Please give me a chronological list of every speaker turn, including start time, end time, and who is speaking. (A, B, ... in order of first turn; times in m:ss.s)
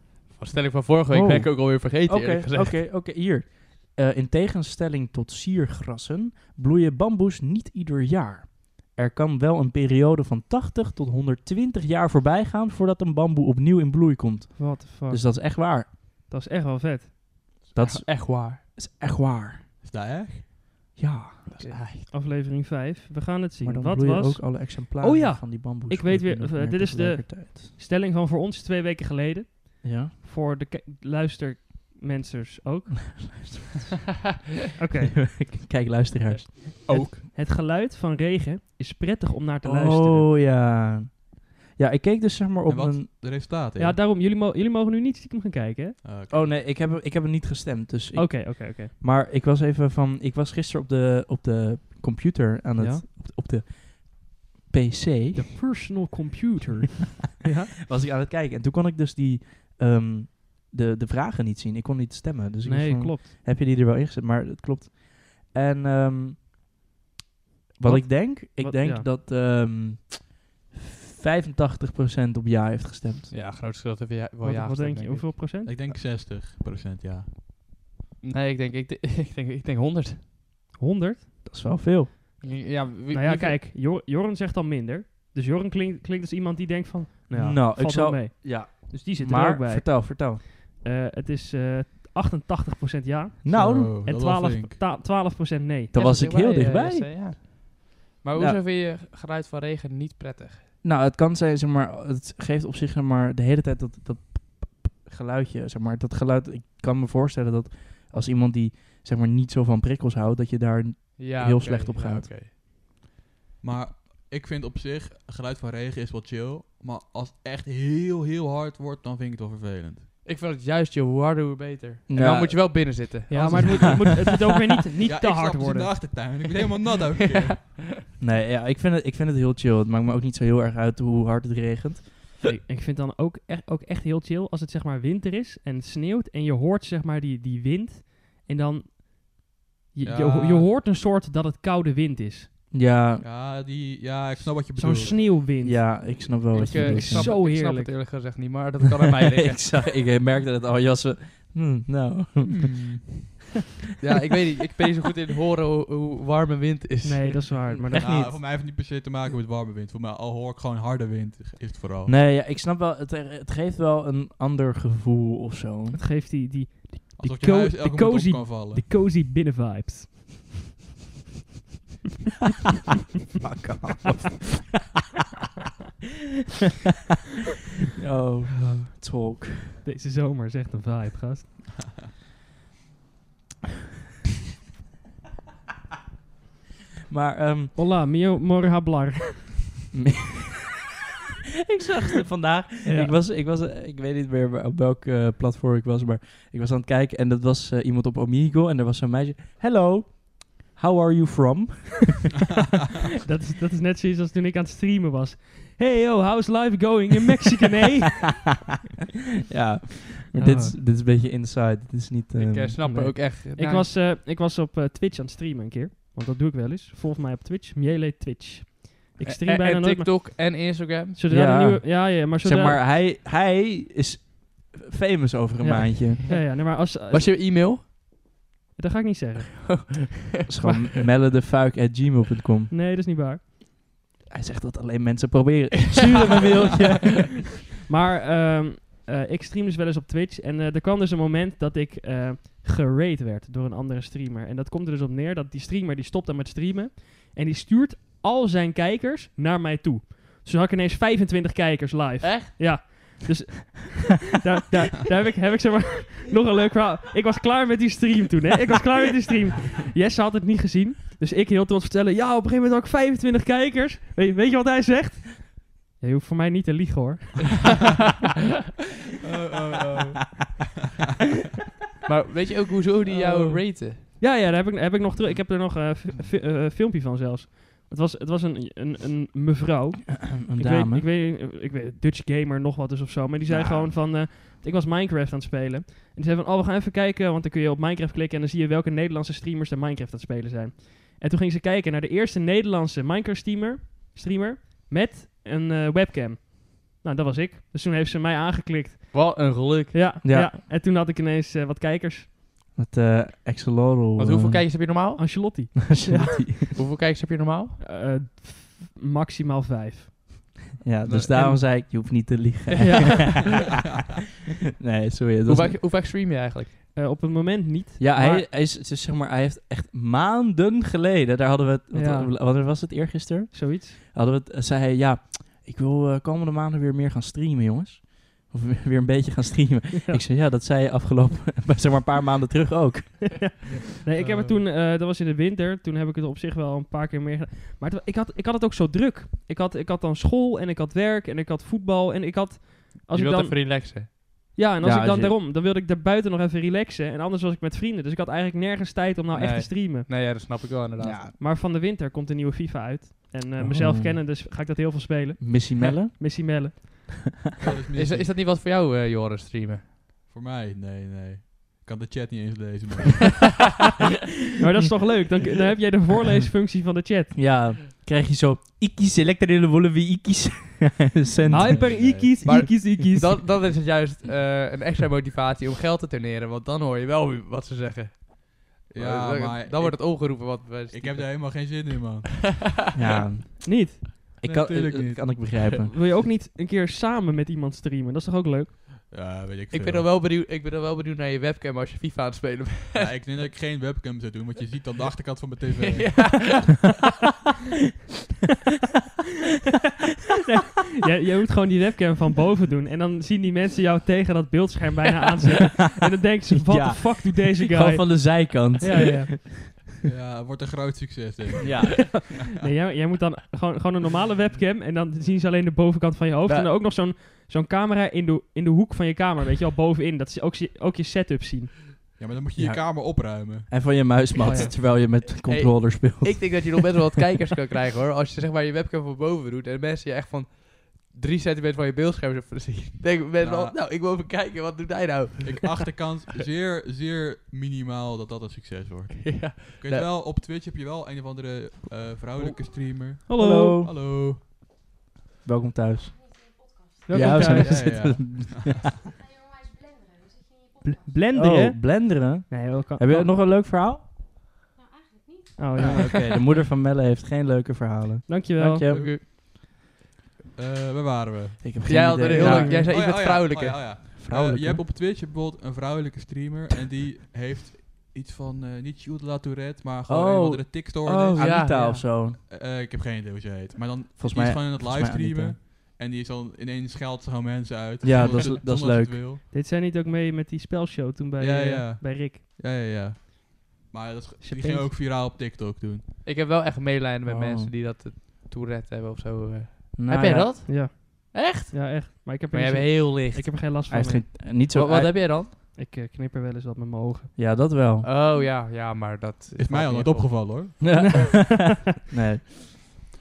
0:00.3-0:02.8 A
0:01.1-0:15.9 B
0:14.6-0:17.5 C
0:17.7-0:18.6 A
0:17.7-0:19.6 B
0:19.8-0:20.5 D
0:21.0-0:21.8 B
0:21.5-0:22.1 A
0:22.1-0:33.3 C
0:23.6-0:27.7 B
0:29.8-0:30.1 B
0:33.2-0:33.9 B
0:34.8-0:35.3 C
0:35.2-0:37.1 B
0:36.7-0:40.3 C
0:36.9-0:37.2 D
0:39.6-0:43.1 B
0:42.7-0:44.0 D
0:43.8-0:46.0 C
0:46.0-0:46.5 D
0:46.3-0:55.6 B
0:48.2-0:48.9 C
0:52.8-0:53.0 C
0:55.4-0:57.7 C
0:57.9-1:06.5 B
1:02.6-1:03.3 C
1:07.8-1:13.3 B
1:07.8-1:09.1 C
1:13.3-1:15.3 A
1:14.4-1:15.7 C
1:15.6-1:17.3 D
1:18.2-1:20.2 A
1:20.8-1:21.2 C
1:21.4-1:22.1 B
1:22.4-1:23.6 A
1:23.1-1:35.9 C
1:27.3-1:30.4 B
1:33.4-1:34.0 B
1:33.5-1:34.8 D
1:35.9-1:37.1 B
1:35.9-1:40.6 A
1:40.8-1:52.3 B
1:51.2-1:52.5 A
1:53.6-2:00.1 D
2:00.2-2:04.4 A
2:02.1-2:03.0 B
2:03.3-2:06.1 C
2:03.4-2:04.3 D
2:05.0-2:07.7 D
2:07.2-2:08.0 A
2:08.2-2:12.1 B
2:12.5-2:22.5 C
2:20.0-2:20.7 D
2:22.7-2:23.2 B
2:23.2-2:25.2 D
2:24.8-2:25.9 C
2:25.5-2:27.4 B
2:26.5-2:29.8 A
2:26.8-2:27.9 C
2:29.3-2:33.2 B
2:32.5-2:33.2 D
2:34.0-2:37.6 A
2:37.0-2:38.2 C
2:37.9-2:38.4 B
2:37.9-2:42.1 D
2:42.1-2:46.0 B
2:46.0-2:50.5 C
2:47.2-2:48.9 D
2:53.4-2:54.8 B
2:58.0-2:59.8 B
2:59.8-3:01.6 C
3:07.1-3:07.8 B
3:07.8-3:09.7 C
3:09.9-3:10.5 B
3:11.8-3:22.1 B
3:23.3-3:28.4 C
3:29.5-3:32.8 B
3:30.4-3:30.8 C
3:32.4-3:33.9 A
3:32.8-3:42.8 C
3:39.4-3:41.2 A
3:41.3-3:46.2 B
3:45.6-3:47.3 C
3:46.3-3:47.9 A
3:48.8-3:49.9 C
3:50.5-3:52.7 B
3:52.7-3:53.4 C
3:54.3-3:57.5 B
3:57.9-4:27.9 C
4:12.2-4:12.9 A
4:29.2-4:30.6 D
4:32.1-4:34.0 A
4:34.0-4:59.4 C
4:40.4-4:41.0 B
4:43.5-4:43.9 B
4:59.1-5:00.0 A
4:59.9-5:02.3 C
5:00.2-5:00.6 B
5:02.8-5:04.8 B
5:04.2-5:05.7 A
5:05.2-5:06.3 C
5:05.9-5:06.7 B
5:06.8-5:07.8 A
5:07.8-5:10.6 C
5:10.8-5:13.7 B
5:11.1-5:11.6 A
5:12.8-5:13.1 A
5:12.8-5:13.7 C
5:14.8-5:15.8 B
5:15.5-5:16.8 A
5:16.9-5:18.5 C
5:18.0-5:33.6 B
5:21.9-5:22.3 C
5:23.5-5:24.0 C
5:33.4-5:50.1 C
5:34.3-5:34.5 A
5:43.1-5:44.1 A
5:44.8-5:45.4 B
5:49.3-5:51.2 A
5:51.0-5:51.3 B
5:51.4-5:57.3 C
5:53.6-5:54.2 B
5:55.4-5:57.0 B
5:57.6-5:58.3 D
5:57.9-5:59.8 A
6:00.3-6:03.5 D
6:04.6-6:07.5 C
6:07.3-6:12.1 B
6:11.5-6:13.4 C
6:11.6-6:12.4 D
6:12.4-6:21.7 A
6:18.9-6:22.5 D
6:23.0-6:25.9 B
6:23.6-6:24.1 C
6:24.4-6:25.4 D
6:25.8-6:28.8 C
6:29.1-6:30.1 D
6:29.7-6:33.1 A
6:33.0-6:36.6 D
6:35.8-6:36.8 A
6:40.5-6:49.3 C
6:46.5-6:49.8 B
6:50.0-6:52.1 D
6:51.6-6:52.2 B
6:52.4-7:01.8 C
7:02.2-7:03.7 D
7:02.6-7:06.9 B
7:04.4-7:04.7 C
7:05.0-7:15.8 A
7:13.4-7:13.8 D
7:15.4-7:24.4 D
7:19.2-7:20.1 A
7:23.3-7:23.8 C
7:23.3-7:23.9 B
7:25.4-7:26.5 B
7:27.1-7:27.9 C
7:27.1-7:28.8 B
7:27.3-7:28.1 A
7:27.6-7:28.8 D
7:30.8-7:33.3 C
7:31.3-7:34.1 B
7:35.6-7:36.2 C
7:35.8-7:39.2 B
7:38.3-7:38.8 C
7:38.9-7:39.2 A
7:40.6-7:51.5 D
7:41.6-7:42.7 B
7:41.9-7:43.8 A
7:42.3-7:42.9 C
7:44.2-7:44.8 B
7:50.1-7:52.4 B
7:51.4-7:52.0 A
7:52.5-7:59.4 D
7:54.2-7:55.6 B
7:58.0-7:59.2 B
7:58.2-7:58.5 A
7:58.2-7:58.5 C
7:59.5-8:02.4 C
8:01.4-8:06.0 D
8:04.4-8:04.9 C
8:06.2-8:13.5 A
8:07.3-8:07.7 B
8:09.9-8:10.6 B
8:10.7-8:14.3 C
8:13.9-8:15.2 B
8:14.7-8:15.5 A
8:15.5-8:17.3 C
8:17.4-8:18.1 B
8:18.0-8:20.4 A
8:19.6-8:20.8 D
8:20.8-8:23.0 B
8:21.0-8:21.9 C